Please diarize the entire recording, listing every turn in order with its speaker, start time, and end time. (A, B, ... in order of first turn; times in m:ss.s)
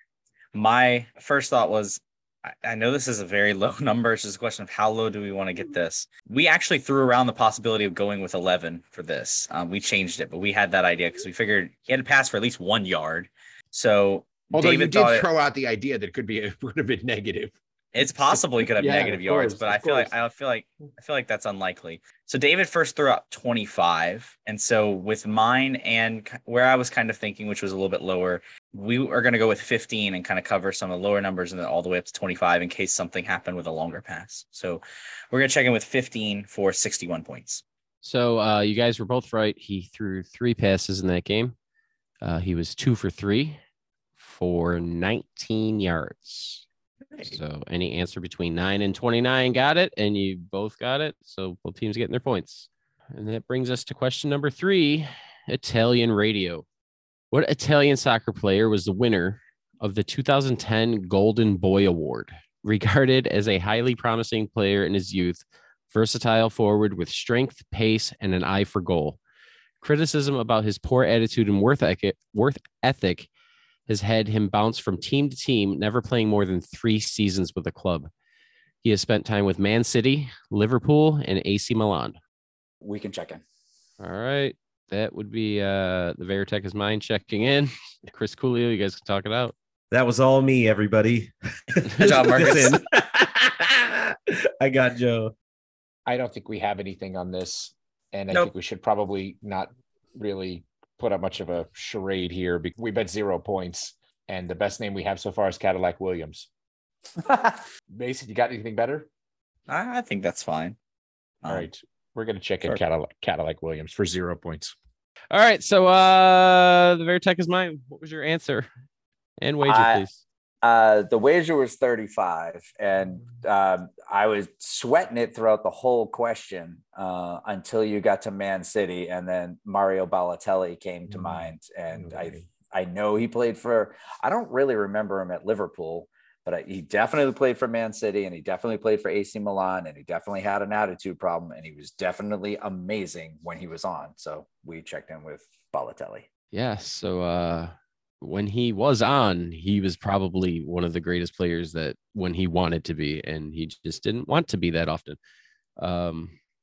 0:00.5-0:15.3 A
0:14.5-0:17.5 B
0:17.9-0:37.6 A
0:18.7-0:20.1 B
0:38.0-0:41.5 C
0:42.2-0:43.6 C
0:44.2-0:46.6 C
0:47.2-0:56.6 C
0:57.3-1:09.2 C
1:09.8-1:13.3 C
1:13.9-1:18.1 C
1:18.8-1:22.2 C
1:22.8-1:23.4 D
1:24.0-1:29.5 C
1:29.9-1:35.3 E
1:31.9-1:32.8 A
1:36.0-1:46.5 B
1:47.2-1:47.6 D
1:47.9-1:49.1 B
1:49.7-1:50.8 A
1:51.5-1:54.7 B
1:55.3-1:58.7 C
1:59.4-2:00.2 C
1:59.6-2:00.0 D
2:00.6-2:26.3 D
2:11.1-2:11.5 B
2:12.1-2:12.4 B
2:26.5-2:35.2 C
2:35.8-2:36.3 C